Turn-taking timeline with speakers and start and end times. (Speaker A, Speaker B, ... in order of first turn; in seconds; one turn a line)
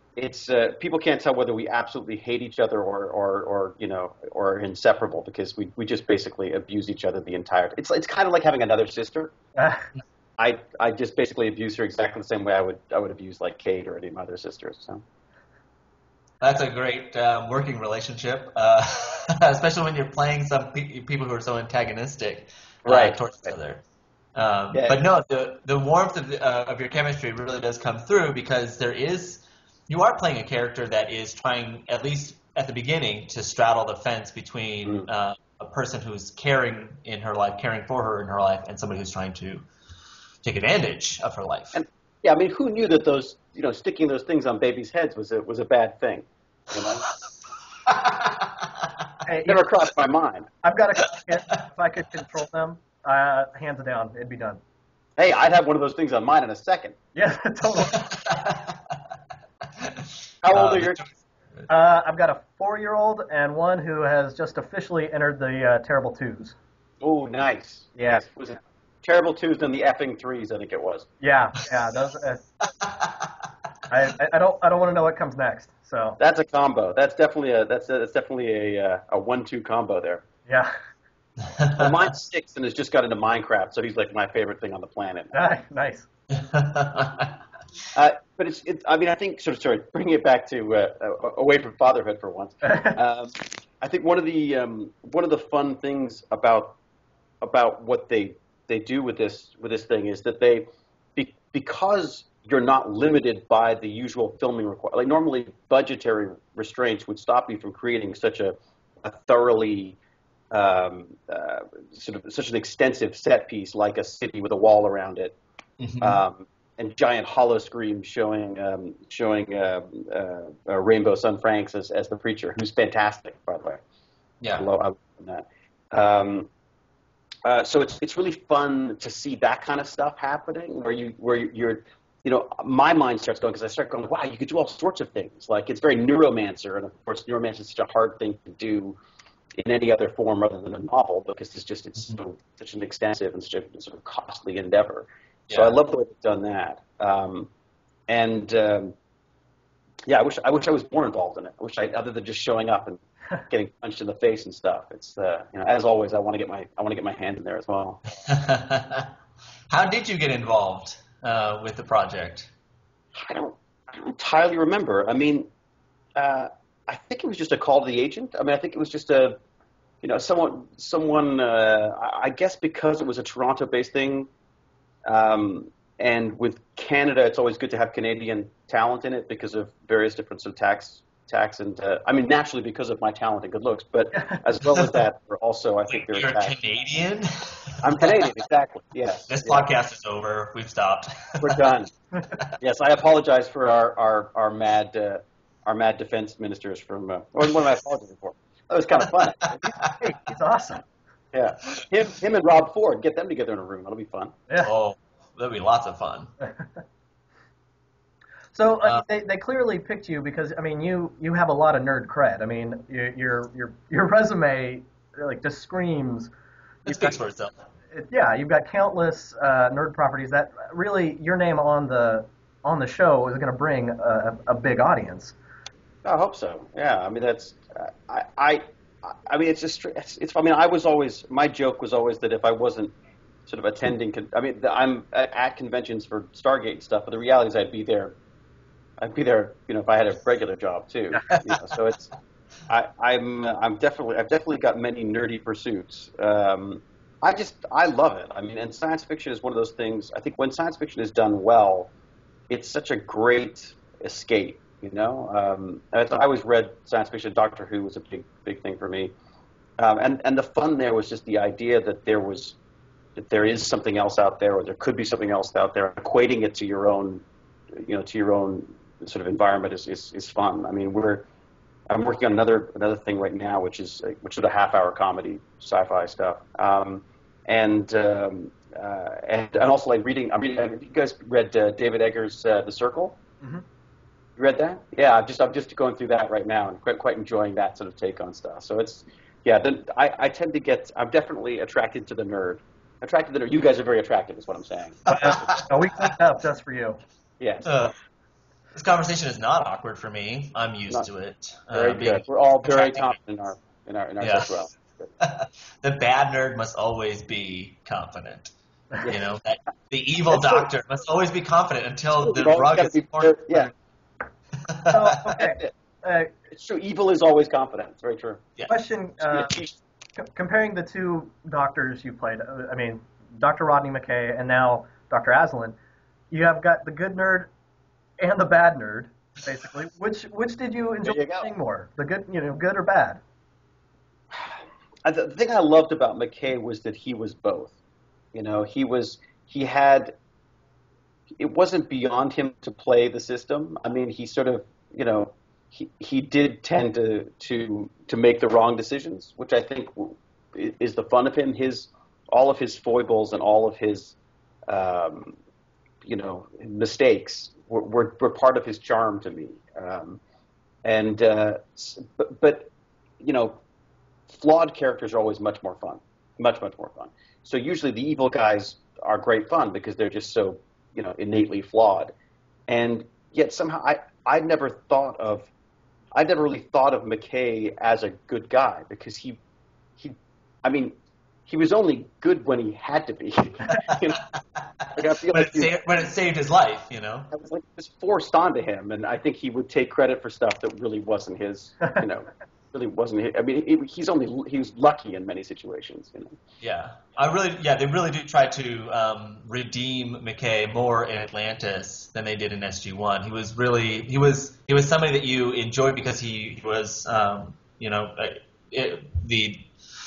Speaker A: 0.2-9.3
Speaker B: 9.6-9.9
Speaker A: 10.4-15.0
Speaker C: 16.4-39.7
Speaker A: 22.9-23.5
Speaker A: 24.7-25.0
Speaker C: 40.4-41.8
Speaker A: 41.7-47.1
Speaker C: 47.9-48.6
Speaker B: 49.2-49.9
Speaker A: 49.5-50.5
Speaker B: 50.6-54.6
Speaker A: 55.2-57.0
Speaker B: 57.1-58.1
Speaker C: 57.9-58.7
Speaker C: 59.8-61.7
Speaker A: 60.4-61.1
Speaker B: 61.7-66.5
Speaker A: 67.0-71.1
Speaker B: 68.0-68.2
Speaker B: 71.2-72.4
Speaker C: 72.8-73.3
Speaker B: 73.9-76.2
Speaker A: 76.2-80.2
Speaker B: 80.5-80.7
Speaker C: 81.4-82.0
Speaker A: 81.7-85.4
Speaker B: 85.3-86.1
Speaker C: 86.3-87.3
Speaker A: 87.9-96.8
Speaker B: 92.6-93.0
Speaker A: 97.4-100.7
Speaker A: 101.2-110.0
Speaker A: 110.5-115.4
Speaker C: 115.8-116.2
Speaker A: 116.0-123.8
Speaker A: 124.5-126.5
Speaker A: 127.5-139.0
Speaker A: 139.6-147.5
Speaker C: 145.5-145.8
Speaker A: 148.1-148.9
Speaker A: 150.1-158.0
Speaker C: 158.2-159.1
Speaker C: 159.7-162.5
Speaker A: 163.2-165.5
Speaker A: 166.2-169.4
Speaker A: 170.0-174.3
Speaker A: 175.1-186.6
Speaker C: 184.6-185.0
Speaker C: 185.9-188.3
Speaker A: 187.8-189.7
Speaker C: 189.3-191.7
Speaker A: 191.4-191.9
Speaker A: 192.6-199.7
Speaker C: 199.6-200.0
Speaker B: 199.8-200.8
Speaker A: 201.3-204.3
Speaker C: 204.6-206.3
Speaker B: 208.5-216.3
Speaker B: 216.8-217.2
Speaker C: 216.9-217.6
Speaker B: 217.9-225.3
Speaker A: 226.1-232.9
Speaker A: 233.5-238.2
Speaker A: 239.0-242.1
Speaker C: 241.3-241.7
Speaker A: 242.7-251.9
Speaker A: 252.5-259.1
Speaker A: 259.8-262.6
Speaker A: 263.2-267.2
Speaker A: 267.8-271.2
Speaker A: 271.9-283.2
Speaker A: 284.4-295.6
Speaker B: 295.1-297.0
Speaker C: 295.2-295.6
Speaker A: 297.4-297.9
Speaker C: 297.6-297.9
Speaker C: 298.7-303.1
Speaker A: 301.7-305.1
Speaker C: 304.2-304.6
Speaker C: 305.2-308.5
Speaker C: 309.1-313.7
Speaker A: 310.3-310.7
Speaker A: 312.2-313.7
Speaker C: 314.6-315.3
Speaker B: 314.9-316.3
Speaker A: 315.4-315.7
Speaker A: 316.5-318.4
Speaker B: 318.7-319.6
Speaker A: 319.2-319.8
Speaker B: 320.2-325.8
Speaker B: 326.3-327.5
Speaker B: 328.2-333.2
Speaker A: 331.0-331.5
Speaker A: 334.3-337.8
Speaker A: 338.3-340.1
Speaker A: 341.4-354.2
Speaker A: 354.7-355.4
Speaker A: 356.0-360.2
Speaker A: 360.9-363.6
Speaker A: 364.3-372.1
Speaker A: 372.7-375.5
Speaker A: 376.1-379.4
Speaker A: 380.0-384.2
Speaker C: 383.7-387.3
Speaker A: 384.9-385.8
Speaker A: 387.3-396.4
Speaker C: 396.6-409.7